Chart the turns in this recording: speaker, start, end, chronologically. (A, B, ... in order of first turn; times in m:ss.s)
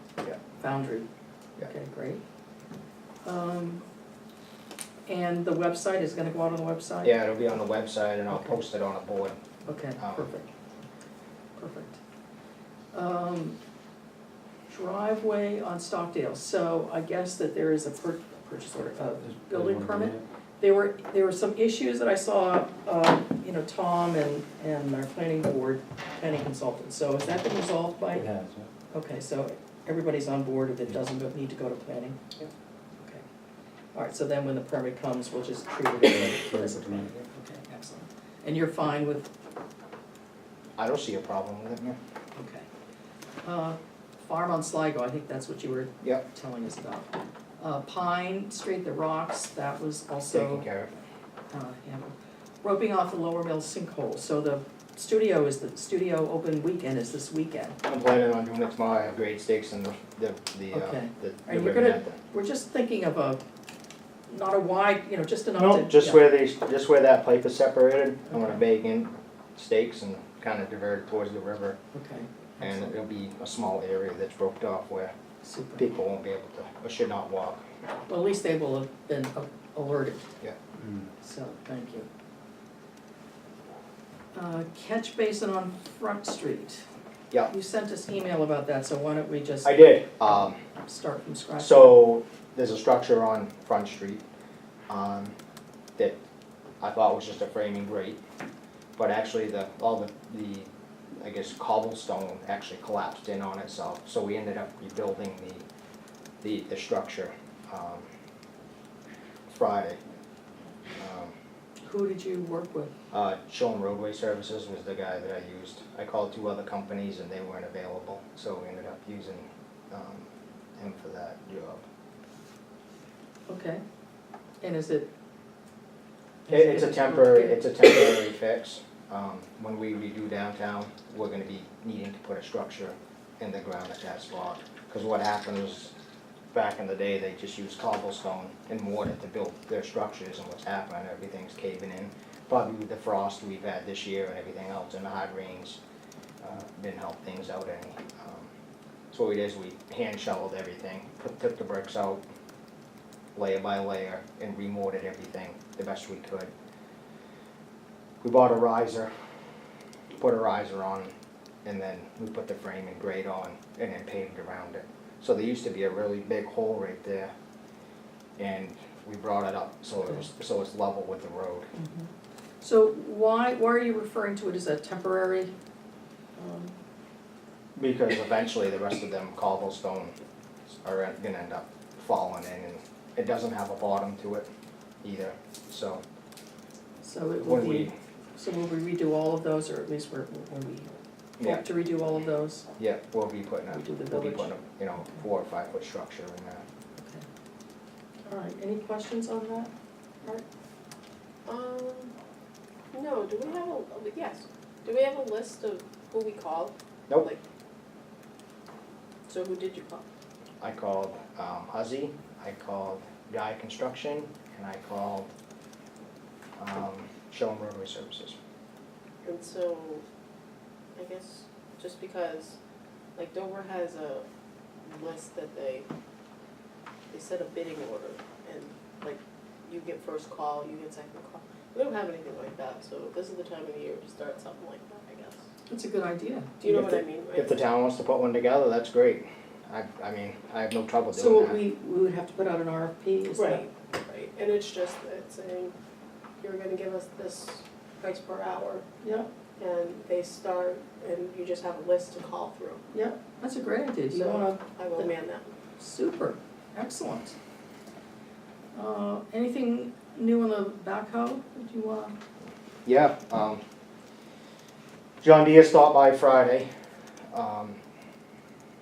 0:00.6-0:01.1 A
0:01.6-0:02.2 A
0:03.2-0:03.8 A
0:05.1-0:07.1 A
0:07.0-0:09.4 B
0:08.3-0:08.6 A
0:09.6-0:10.5 A
0:10.0-0:10.3 B
0:11.6-0:12.0 A
0:12.9-0:13.6 A
0:14.7-0:28.3 A
0:19.2-0:20.2 C
0:28.1-0:28.7 C
0:28.9-0:32.2 A
0:33.0-0:33.2 A
0:33.9-0:39.3 A
0:36.1-0:37.1 C
0:40.8-0:42.0 B
0:42.3-0:42.7 A
0:43.4-0:50.6 A
0:50.3-0:50.9 B
0:51.5-0:57.8 A
0:57.9-1:02.2 B
1:00.7-1:03.4 A
1:04.3-1:06.2 A
1:05.6-1:11.8 B
1:08.3-1:08.6 A
1:11.9-1:13.0 A
1:12.6-1:15.1 B
1:15.4-1:15.9 A
1:15.8-1:17.6 B
1:18.1-1:20.2 A
1:20.8-1:21.1 C
1:21.2-1:22.1 A
1:24.3-1:26.8 A
1:27.5-1:32.0 A
1:29.6-1:30.6 B
1:31.6-1:34.2 B
1:34.9-1:35.3 B
1:36.8-1:38.2 B
1:39.0-1:40.7 B
1:41.2-1:45.6 B
1:46.4-1:48.1 B
1:49.5-1:50.0 B
1:51.0-1:51.3 B
1:51.8-1:52.9 A
1:53.1-2:01.8 B
2:03.5-2:03.8 A
2:04.6-2:05.1 A
2:06.5-2:07.6 A
2:06.5-2:15.9 B
2:16.5-2:25.8 B
2:26.4-2:28.5 B
2:29.1-2:32.2 B
2:33.4-2:36.5 B
2:38.2-2:39.1 B
2:40.1-2:41.1 B
2:41.6-2:47.3 B
2:48.4-2:51.7 B
2:51.7-2:52.1 A
2:52.6-2:55.5 A
2:56.4-2:56.7 A
2:57.8-3:00.2 B
3:00.8-3:04.5 B
3:05.0-3:06.0 B
3:07.0-3:12.7 A
3:07.4-3:08.0 B
3:12.8-3:16.6 B
3:13.7-3:15.2 A
3:17.0-3:17.2 A
3:18.2-3:20.4 A
3:21.4-3:22.1 D
3:22.9-3:27.4 D
3:29.3-3:30.0 D
3:30.6-3:35.3 B
3:36.6-3:38.4 B
3:39.2-3:40.0 D
3:41.0-3:42.6 D
3:43.2-3:44.3 D
3:44.8-3:45.9 D
3:47.1-3:55.4 D
3:55.7-3:56.5 A
3:56.6-3:57.6 D
3:56.6-4:01.6 B
4:01.1-4:03.6 A
4:03.3-4:05.7 D
4:06.4-4:08.8 D
4:09.0-4:09.3 A
4:09.6-4:12.8 D
4:12.9-4:15.1 A
4:14.1-4:15.5 D
4:15.8-4:17.3 A
4:18.7-4:22.1 A
4:22.8-4:23.6 B
4:25.2-4:26.7 B
4:27.3-4:27.8 B